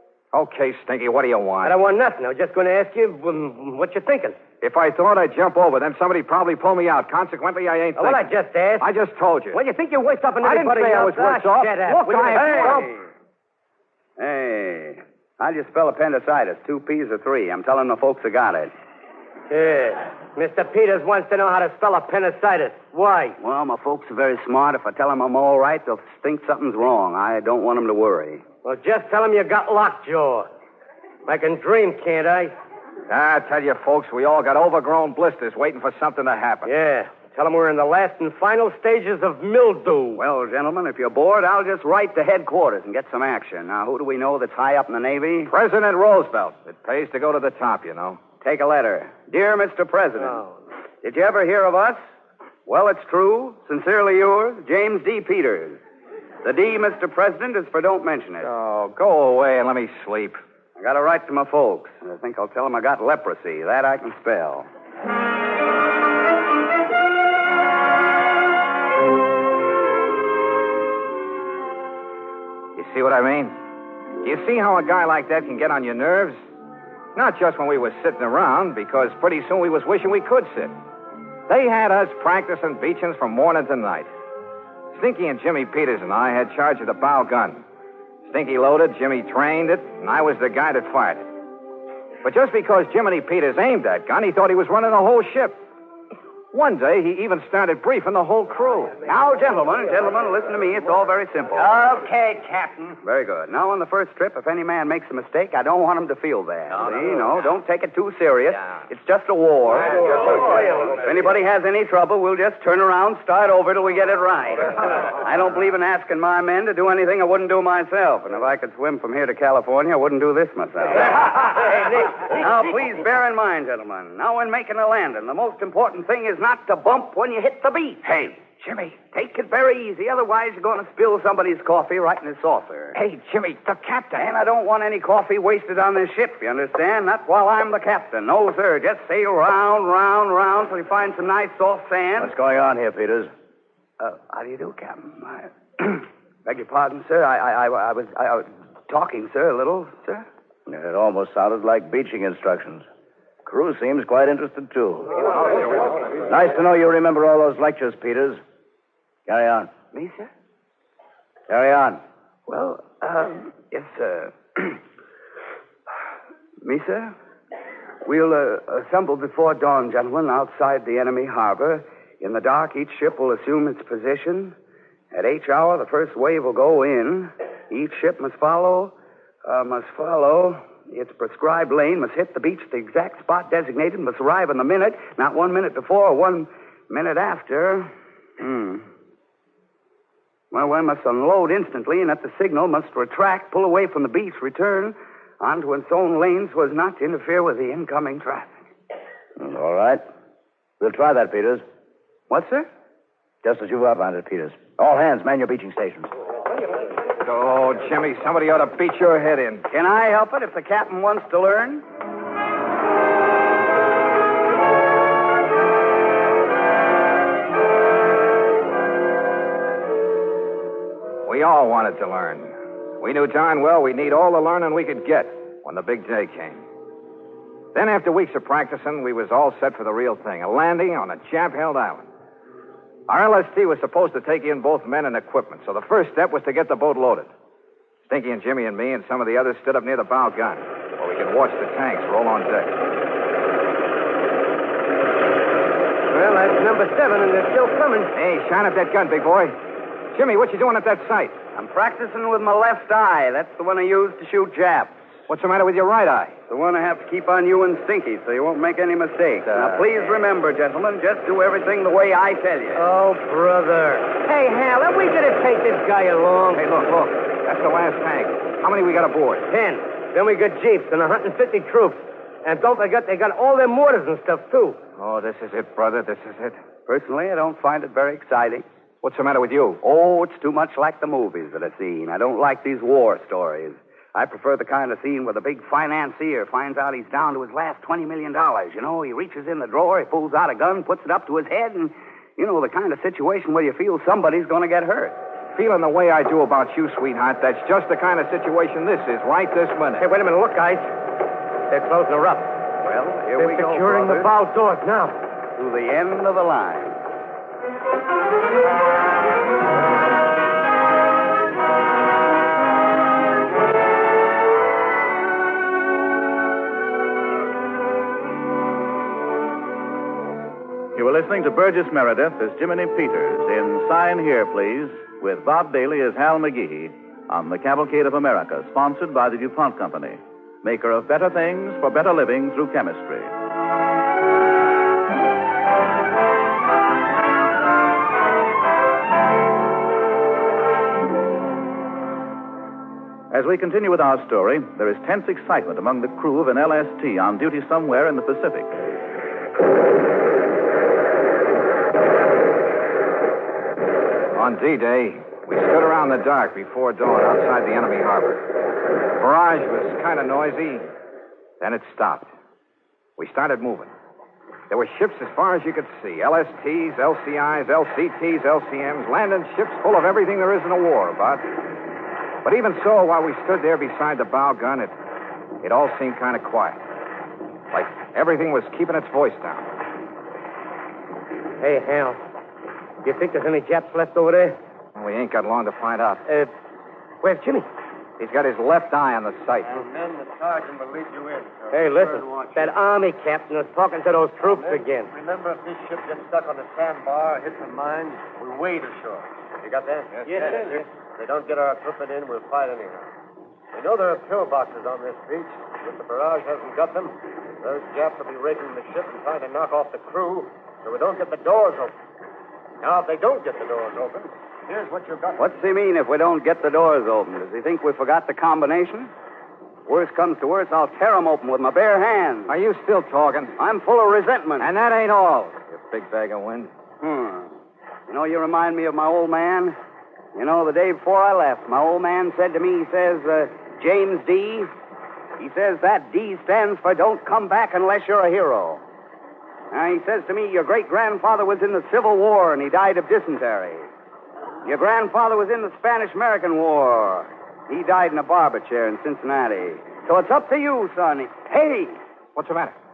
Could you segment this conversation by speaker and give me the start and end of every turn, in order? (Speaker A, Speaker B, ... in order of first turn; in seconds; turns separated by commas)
Speaker A: 0.3-1.8, Speaker B: 1.6-4.4, Speaker A: 4.6-8.3, Speaker B: 8.0-8.9, Speaker A: 8.8-9.6, Speaker B: 9.5-12.9, Speaker A: 10.4-12.9, Speaker C: 12.4-13.0, Speaker C: 14.2-18.7, Speaker B: 19.5-23.4, Speaker C: 23.4-28.4, Speaker B: 28.6-30.5, Speaker B: 31.2-32.5, Speaker A: 33.1-36.7, Speaker B: 36.6-40.2, Speaker C: 40.2-45.5, Speaker A: 45.5-48.2, Speaker C: 48.4-50.5, Speaker C: 51.0-52.0, Speaker C: 52.6-55.8, Speaker C: 56.4-58.5, Speaker A: 58.4-60.4, Speaker C: 60.8-64.7, Speaker A: 72.8-73.6, Speaker A: 74.2-76.4, Speaker A: 77.1-80.8, Speaker A: 81.5-84.1, Speaker A: 84.9-87.6, Speaker A: 88.3-91.2, Speaker A: 92.2-95.6, Speaker A: 96.5-99.0, Speaker C: 99.0-101.8, Speaker C: 103.0-132.9, Speaker A: 128.1-128.9, Speaker A: 132.9-134.3, Speaker C: 134.1-142.3, Speaker D: 142.2-143.3, Speaker C: 144.0-150.2, Speaker D: 150.7-152.8, Speaker D: 153.4-155.2, Speaker A: 155.4-155.8, Speaker D: 156.3-158.4, Speaker D: 159.3-159.7, Speaker C: 159.9-160.3, Speaker D: 161.5-162.0, Speaker C: 162.5-164.8, Speaker C: 166.6-167.1, Speaker C: 168.0-174.5, Speaker C: 175.1-178.9, Speaker C: 179.4-188.9, Speaker C: 190.5-198.5, Speaker D: 199.4-200.0, Speaker D: 200.8-201.6, Speaker C: 202.3-202.7, Speaker D: 203.4-206.1, Speaker A: 207.2-209.7, Speaker C: 209.7-211.8, Speaker A: 221.2-226.6, Speaker A: 227.7-232.1, Speaker A: 233.1-237.3, Speaker A: 238.1-242.8, Speaker B: 246.1-248.1, Speaker A: 248.1-249.6, Speaker A: 250.1-251.3, Speaker C: 251.5-255.0, Speaker A: 255.3-256.4, Speaker C: 256.5-262.9, Speaker A: 259.4-259.9, Speaker B: 262.8-266.6, Speaker A: 266.6-269.4, Speaker B: 269.5-274.8, Speaker A: 275.0-276.6, Speaker C: 276.9-278.6, Speaker A: 279.0-279.8, Speaker C: 279.8-295.1, Speaker A: 295.5-300.1, Speaker B: 300.0-300.9, Speaker B: 301.7-302.5, Speaker C: 302.8-304.3, Speaker B: 303.4-305.2, Speaker C: 305.5-307.0, Speaker E: 320.9-333.3, Speaker E: 343.3-348.7, Speaker A: 354.4-358.4, Speaker A: 359.2-360.9, Speaker A: 361.6-362.3, Speaker A: 363.2-363.9, Speaker A: 364.7-371.4, Speaker A: 372.4-374.9, Speaker A: 375.6-376.8, Speaker A: 377.7-379.7, Speaker B: 381.6-382.2, Speaker B: 383.0-384.6, Speaker A: 384.9-386.2, Speaker B: 386.3-386.5, Speaker B: 387.2-387.7, Speaker A: 388.2-389.8, Speaker F: 389.6-392.7, Speaker B: 391.7-395.1, Speaker F: 394.4-403.1, Speaker F: 403.7-411.9, Speaker F: 412.8-415.5, Speaker C: 415.4-419.1, Speaker C: 419.9-422.5, Speaker A: 422.5-423.5, Speaker C: 423.6-424.7, Speaker A: 424.6-426.7, Speaker C: 427.0-427.6, Speaker C: 428.1-429.8, Speaker C: 430.3-434.7, Speaker C: 435.4-438.8, Speaker C: 439.7-443.9, Speaker C: 444.6-452.0, Speaker A: 452.4-452.8